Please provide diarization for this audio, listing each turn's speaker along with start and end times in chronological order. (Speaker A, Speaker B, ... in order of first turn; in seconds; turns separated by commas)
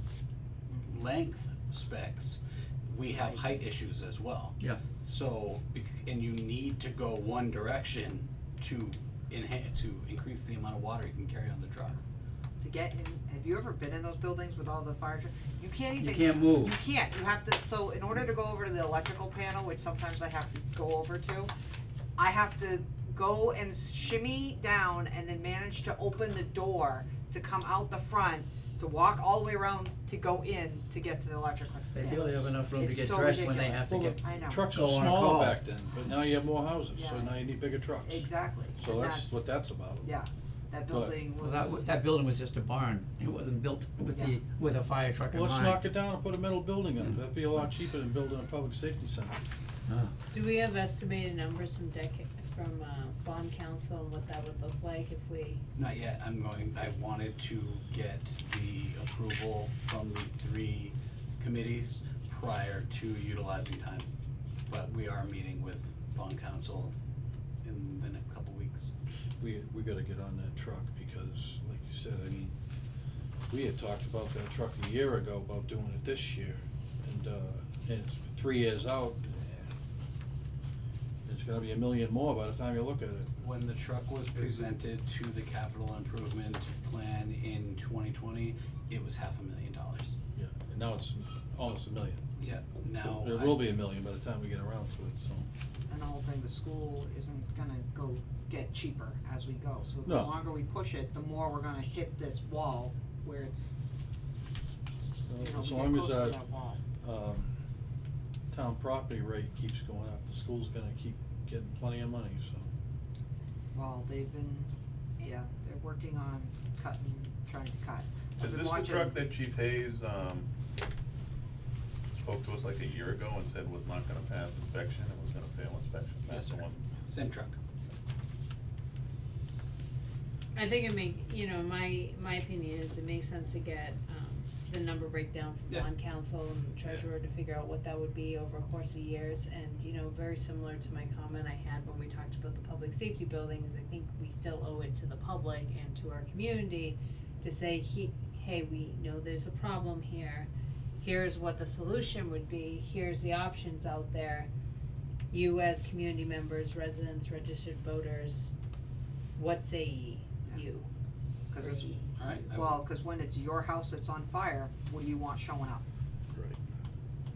Speaker A: 0.8-12.0, Speaker B: 3.1-3.6, Speaker B: 12.6-21.5, Speaker C: 16.0-16.8, Speaker B: 22.2-34.7, Speaker C: 31.9-35.6, Speaker D: 33.9-40.1, Speaker B: 36.9-41.8, Speaker D: 40.9-41.2, Speaker C: 41.3-45.9, Speaker B: 44.1-44.4, Speaker D: 45.3-49.4, Speaker C: 49.9-50.1, Speaker E: 50.3-55.6, Speaker A: 55.8-64.1, Speaker A: 64.7-66.9, Speaker A: 67.6-68.9, Speaker D: 69.4-72.5, Speaker D: 73.5-79.7, Speaker D: 81.2-83.3, Speaker A: 83.4-90.1, Speaker D: 90.3-92.2, Speaker A: 92.4-93.7, Speaker D: 93.1-95.5, Speaker B: 95.9-103.7, Speaker D: 100.0-100.3, Speaker D: 105.3-106.4, Speaker B: 105.4-106.8, Speaker D: 107.0-107.5, Speaker D: 108.5-112.7, Speaker B: 113.7-114.7, Speaker B: 115.2-119.2, Speaker F: 118.4-120.5, Speaker F: 122.1-126.9, Speaker A: 126.3-127.5, Speaker E: 130.5-154.5, Speaker E: 155.3-158.5, Speaker E: 159.3-160.9, Speaker B: 161.5-161.9, Speaker E: 161.6-162.1, Speaker A: 162.2-162.8, Speaker B: 162.5-165.8